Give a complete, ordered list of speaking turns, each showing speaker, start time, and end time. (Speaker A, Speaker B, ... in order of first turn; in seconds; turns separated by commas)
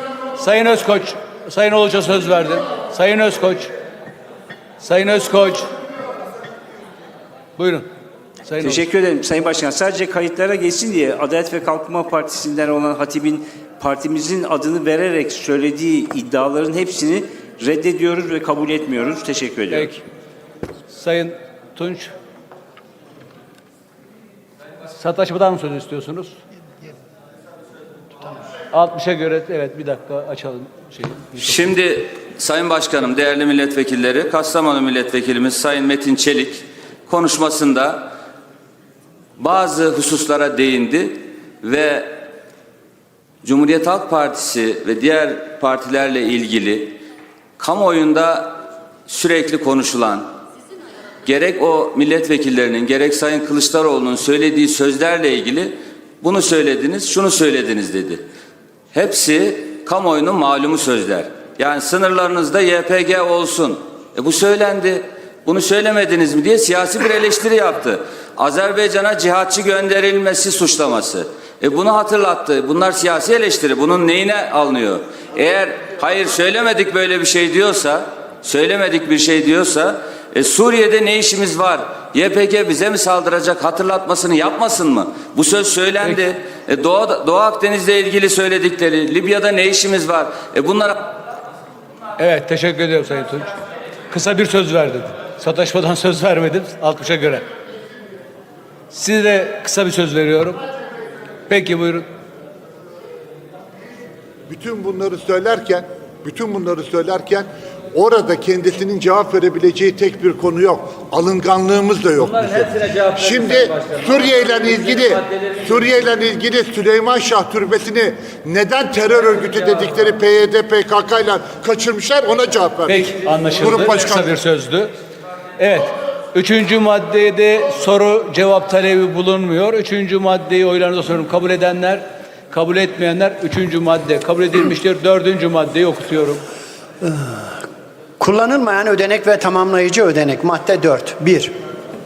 Speaker A: 0.4-3.7, Speaker A: 4.8-5.7, Speaker A: 7.6-7.8, Speaker A: 8.4-8.8, Speaker B: 8.6-19.9, Speaker A: 19.7-20.0, Speaker A: 20.9-22.1, Speaker A: 24.9-26.3, Speaker A: 28.7-31.5, Speaker C: 31.4-38.1, Speaker C: 39.4-42.1, Speaker C: 43.4-46.9, Speaker C: 47.6-48.5, Speaker C: 49.1-50.3, Speaker C: 51.2-58.2, Speaker C: 58.9-91.0, Speaker A: 92.2-93.5, Speaker A: 94.1-97.4, Speaker A: 98.9-100.6, Speaker A: 101.5-102.0, Speaker D: 104.5-124.3, Speaker A: 122.9-124.9, Speaker A: 125.6-136.4, Speaker E: 137.0-137.5, Speaker E: 138.2-141.5